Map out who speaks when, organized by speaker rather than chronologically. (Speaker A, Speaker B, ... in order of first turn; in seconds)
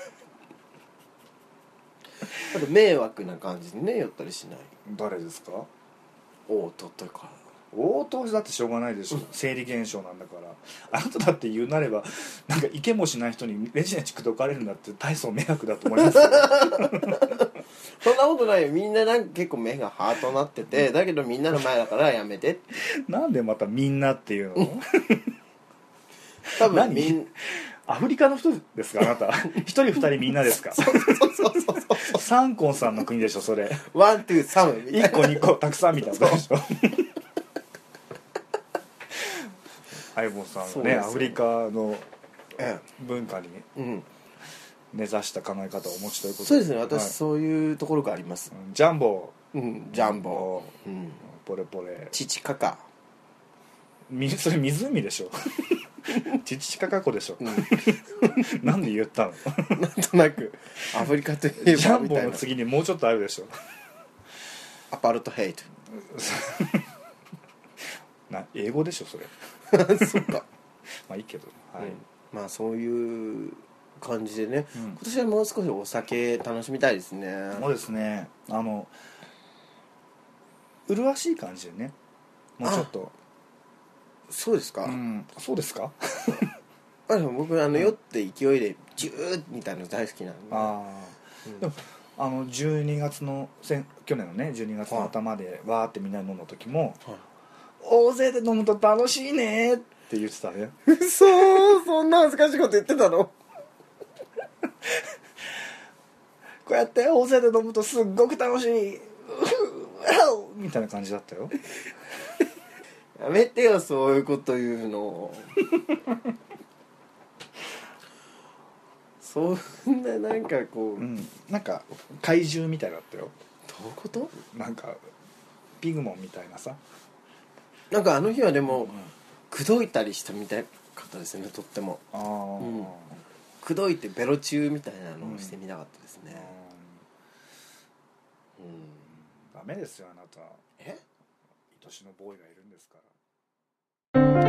Speaker A: 2.4-4.7, 6.5-7.4, 16.1-17.5, 18.0-22.6, 26.5-27.3, 30.5-32.2, 33.9-35.6, 36.1-36.4, 40.6-41.4, 42.6-42.8, 43.8-44.1, 46.4-48.5, 49.5-51.2, 52.1-52.9, 57.4-58.6, 59.6-62.5, 64.9-65.7, 69.7-70.4, 71.8-77.7, 82.6-82.9, 84.3-85.0, 87.1-90.8, 100.9-103.3, 113.2-115.7, 119.2-121.1, 123.7-124.3, 127.9-129.0, 129.5-132.0, 132.6-132.9, 133.6-136.5, 138.6-139.1
Speaker B: 4.8-5.7, 7.7-17.4, 22.9-25.3, 26.6-31.3, 32.0-33.9, 34.9-37.1, 40.1-42.1, 42.9-43.7, 44.9-47.1, 48.5-49.4, 49.9-50.7, 51.2-52.1, 54.1-59.9, 61.6-63.5, 65.9-66.9, 68.3-70.3, 71.0-72.0, 77.5-79.0, 80.9-82.0, 82.6-83.1, 84.8-86.5, 90.5-97.0, 97.8-100.8, 106.7-111.5, 121.0-123.3, 124.4-125.0, 125.8-126.8, 128.7-129.1, 132.1-133.2, 135.2-135.6, 136.3-137.0, 139.4-140.6, 141.7-143.1